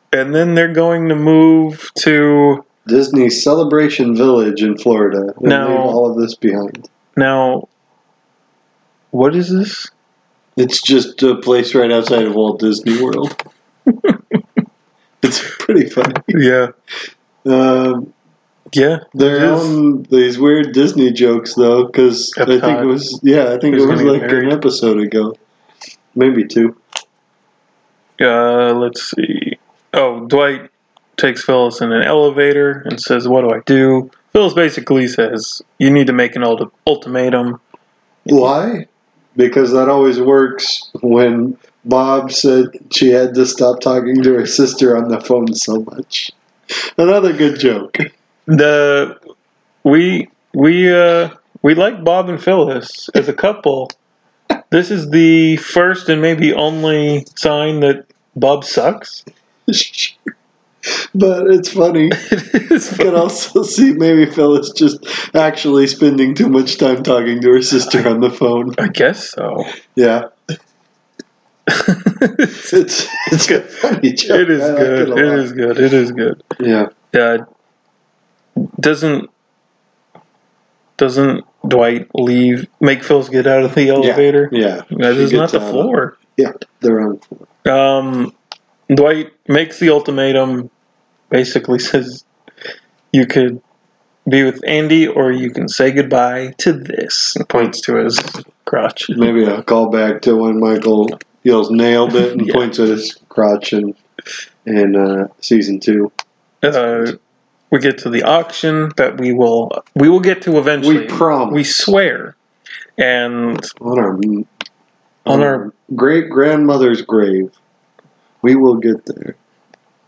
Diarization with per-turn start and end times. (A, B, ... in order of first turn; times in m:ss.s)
0:00.1-0:02.6 A
0:02.9-0:06.9 B
0:05.4-0:06.0 A
0:07.2-0:07.7 A
0:09.1-0:09.9 A
0:10.6-0:13.4 B
0:13.9-0:14.2 A
0:15.2-0:16.4 B
0:16.2-0:16.7 A
0:17.4-0:18.1 B
0:18.7-0:19.8 A
0:19.2-0:25.4 B
0:22.4-0:22.9 A
0:23.7-0:24.6 A
0:26.2-0:26.8 B
0:28.2-0:37.6 A
0:38.3-0:46.3 B
0:47.0-0:48.1 B
0:48.5-0:49.2 A
0:49.8-0:53.9 A
0:54.7-0:59.2 A
0:59.7-1:00.3 B
1:00.9-1:02.2 B
1:02.2-1:03.2 A
1:02.9-1:08.8 B
1:08.8-1:09.7 A
1:09.9-1:10.3 B
1:11.7-1:12.7 A
1:12.6-1:15.5 B
1:13.4-1:16.4 A
1:16.6-1:16.9 B
1:17.1-1:17.4 A
1:18.6-1:19.3 A
1:21.0-1:26.2 A
1:24.0-1:27.5 B
1:27.6-1:28.3 A
1:28.9-1:30.7 A
1:31.3-1:32.2 A
1:33.1-1:33.6 A
1:34.3-1:39.3 A
1:39.1-1:44.0 B
1:42.2-1:42.7 A
1:44.7-1:46.1 B
1:46.6-1:47.2 A
1:46.6-1:47.2 B
1:47.7-1:52.4 A
1:50.8-1:51.7 B
1:53.0-1:53.7 A
1:53.8-1:54.5 B
1:55.2-1:57.6 B
1:55.3-1:55.7 A
1:58.4-1:59.4 B